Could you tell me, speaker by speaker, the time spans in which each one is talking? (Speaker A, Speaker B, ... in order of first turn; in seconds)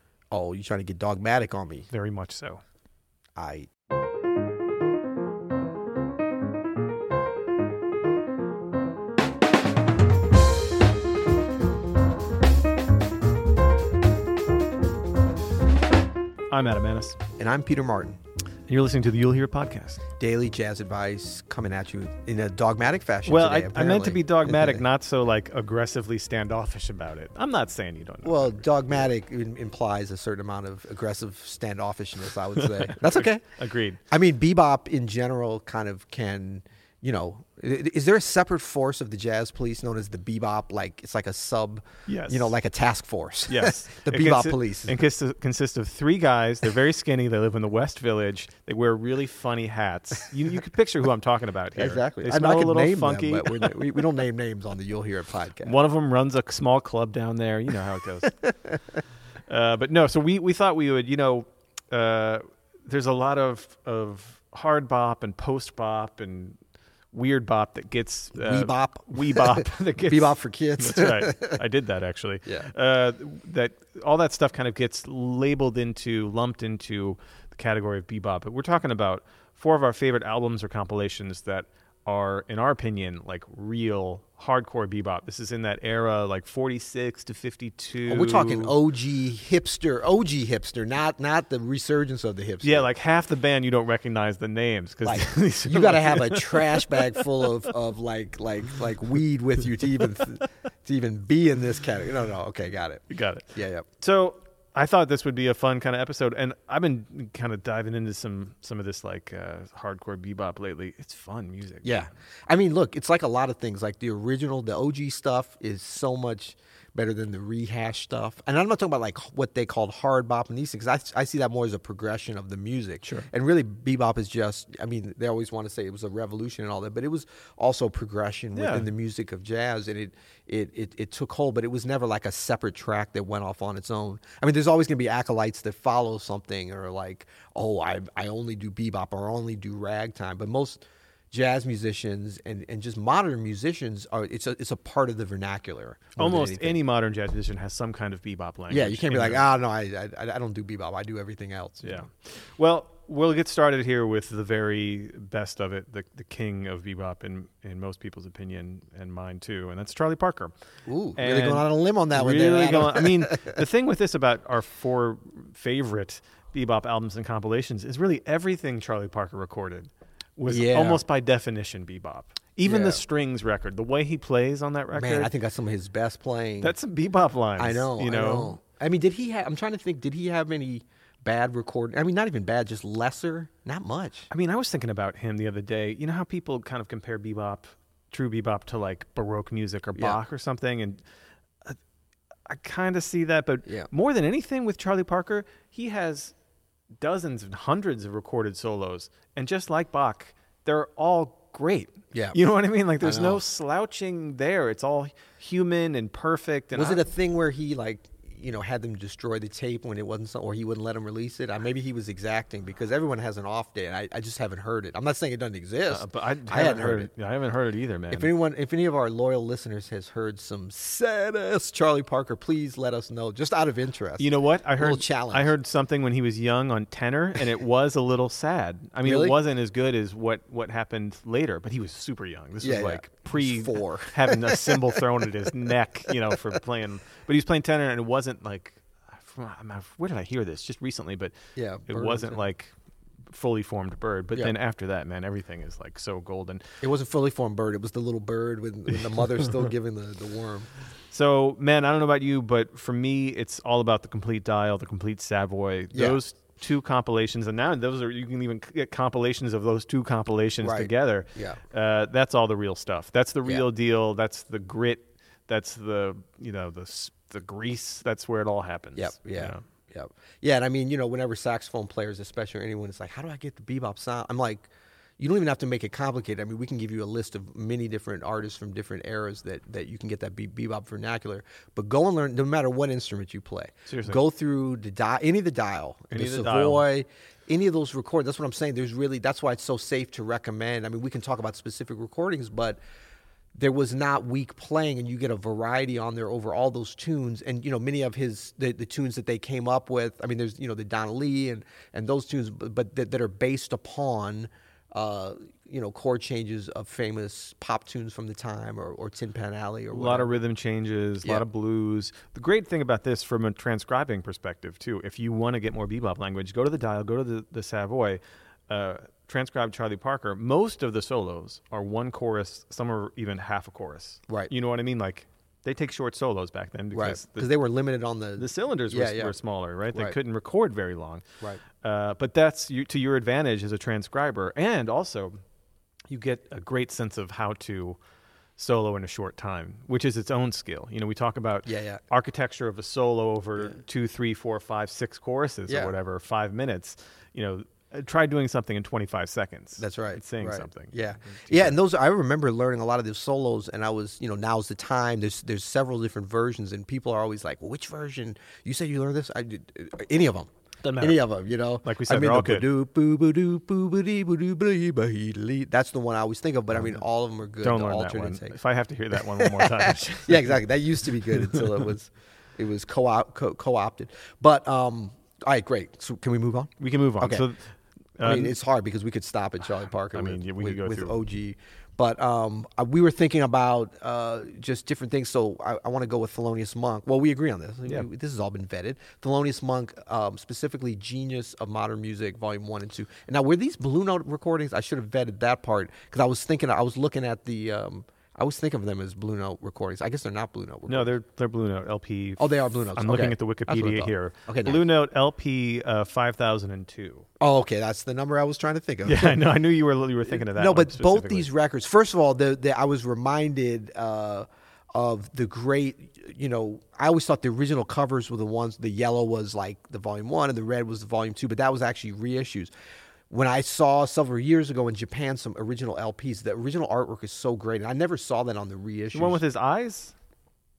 Speaker A: 0.3-1.9, 3.4-3.7, 17.4-18.2, 20.2-24.8, 28.2-33.4, 34.1-45.0, 51.8-55.7, 68.3-71.6, 88.1-92.9, 95.0-103.8, 111.8-146.8, 148.7-152.0, 160.9-163.6, 170.4-171.0, 172.6-173.0, 174.9-176.7, 177.6-184.3, 202.1-202.4, 203.0-203.4, 206.7-217.1, 218.1-225.5, 229.0-229.4, 232.6-235.0, 241.6-242.4, 246.8-250.7, 255.9-256.2, 260.6-261.6, 268.9-292.8, 293.6-310.4, 326.9-329.3, 329.9-330.2, 341.7-342.0, 345.7-345.9, 349.8-368.6, 369.2-377.4, 378.2-401.1, 402.4-404.8, 407.4-409.4, 410.3-422.7, 423.3-429.4
Speaker B: 1.9-2.6, 16.5-17.2, 18.7-20.0, 23.2-29.1, 32.6-34.0, 42.1-42.5, 43.5-54.0, 55.6-58.5, 59.5-66.6, 67.1-88.8, 92.6-97.0, 103.1-112.1, 123.0-123.3, 128.5-128.8, 146.2-149.5, 151.8-160.5, 161.2-175.3, 176.6-178.6, 184.3-191.0, 192.4-196.3, 197.0-207.0, 215.9-218.3, 224.2-241.3, 241.9-242.7, 243.3-246.6, 251.1-269.6, 283.9-284.2, 286.1-286.9, 309.9-327.5, 328.4-331.2, 331.8-335.4, 336.1-338.0, 338.6-351.8, 360.8-361.2, 361.8-362.7, 367.6-370.6, 376.8-377.6, 378.2-378.6, 380.1-381.2, 400.9-407.2, 409.0-411.5, 429.1-430.1